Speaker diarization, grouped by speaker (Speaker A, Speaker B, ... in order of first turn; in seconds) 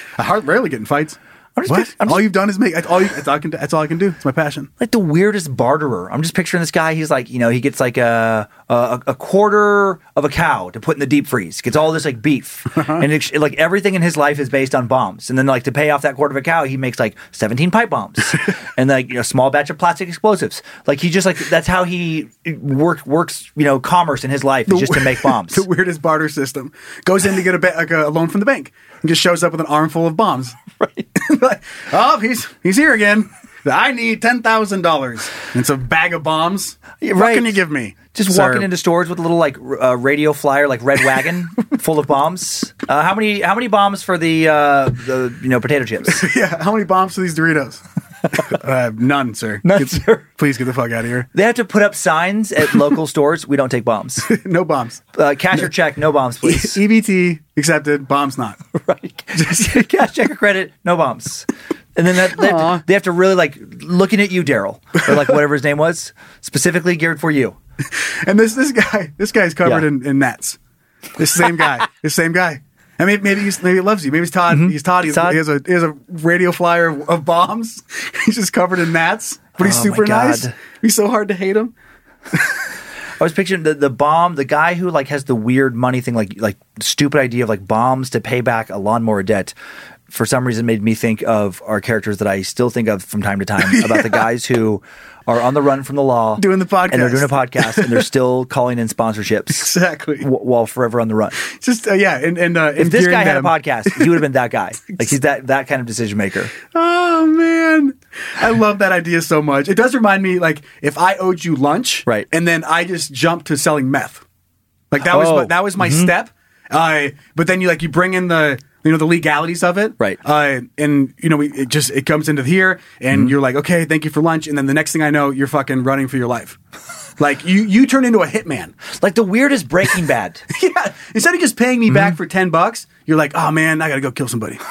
Speaker A: 0.2-4.7, 12.7-13.1, 24.7-30.6, 31.2-38.7, 46.1-47.8, 48.3-51.3, 54.2-55.0, 56.4-58.6, 62.3-62.8, 67.8-70.6, 71.2-81.7, 82.3-82.6, 93.7-94.2, 96.3-98.0, 99.5-100.3, 101.4-104.2, 106.7-114.2, 114.9-126.6, 127.2-128.7, 130.5-134.6
Speaker B: 1.6-2.3, 4.8-25.6, 30.8-31.1, 37.0-37.6, 38.1-46.2, 49.6-50.2, 51.3-54.3, 55.1-56.8, 58.7-67.5, 74.5-75.4, 79.6-80.5, 83.2-89.5, 90.1-101.4, 102.8-106.5, 115.0-116.1, 128.9-130.4, 131.9-132.2